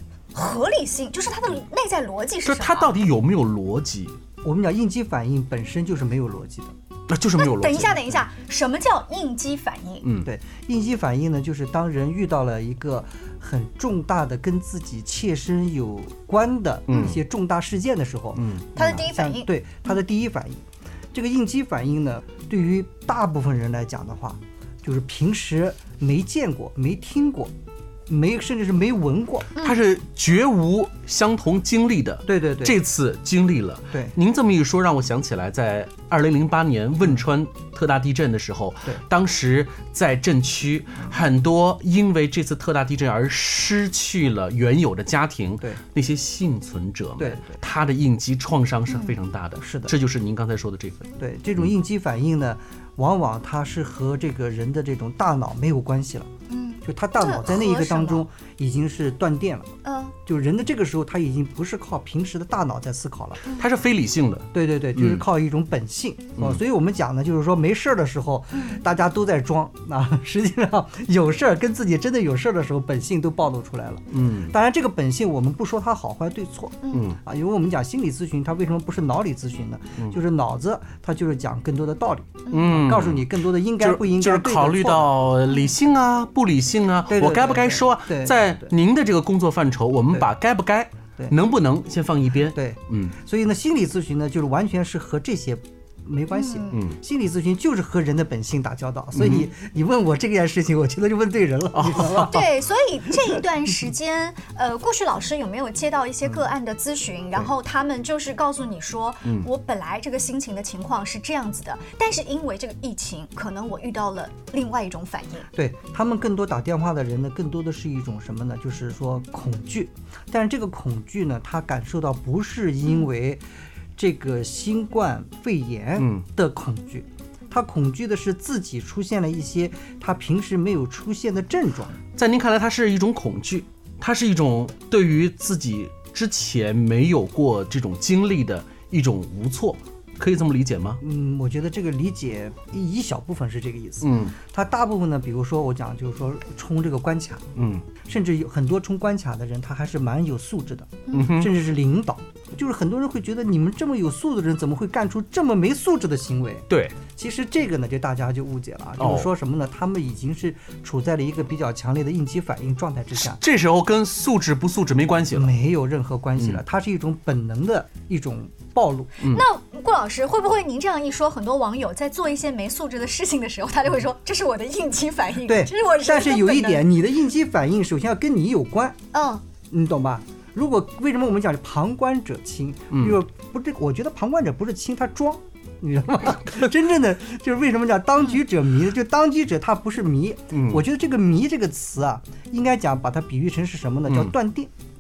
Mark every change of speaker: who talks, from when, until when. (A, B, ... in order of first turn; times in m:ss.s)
0:00.3-0:03.0 A
0:02.4-0:04.2 B
0:04.4-0:06.8 C
0:07.1-0:08.2 B
0:07.4-0:10.1 A
0:10.0-0:10.3 B
0:10.2-0:27.5 C
0:16.9-0:17.2 B
0:18.4-0:18.6 B
0:18.8-0:19.9 A
0:28.1-0:29.6 C
0:29.6-0:51.1 B
0:32.3-0:32.8 C
0:47.2-0:47.6 C
0:49.6-0:49.9 C
0:51.2-0:56.3 C
0:56.5-0:58.2 A
0:56.8-0:59.7 C
0:59.8-1:00.2 A
1:00.3-1:03.4 C
1:03.6-1:05.2 B
1:04.5-1:25.1 C
1:08.5-1:08.8 A
1:14.1-1:14.5 B
1:16.9-1:17.2 B
1:22.5-1:23.3 B
1:23.8-1:33.1 B
1:27.1-1:28.7 C
1:32.5-1:42.4 C
1:36.3-1:36.7 A
1:39.2-1:39.5 B
1:41.8-1:42.5 B
1:42.3-1:55.5 A
1:55.5-2:03.4 C
2:04.0-2:12.0 C
2:06.0-2:06.2 B
2:12.2-2:21.0 B
2:21.0-2:27.5 C
2:24.0-2:24.4 B
2:27.6-2:27.8 B
2:28.0-2:43.4 C
2:31.1-2:31.5 B
2:36.7-2:37.0 B
2:39.0-2:39.3 B
2:43.3-2:45.5 B
2:45.3-2:49.2 C
2:49.2-2:56.8 A
2:55.4-2:59.0 C
2:59.1-2:59.4 A
2:59.7-3:14.7 C
3:02.9-3:03.2 B
3:10.5-3:10.8 B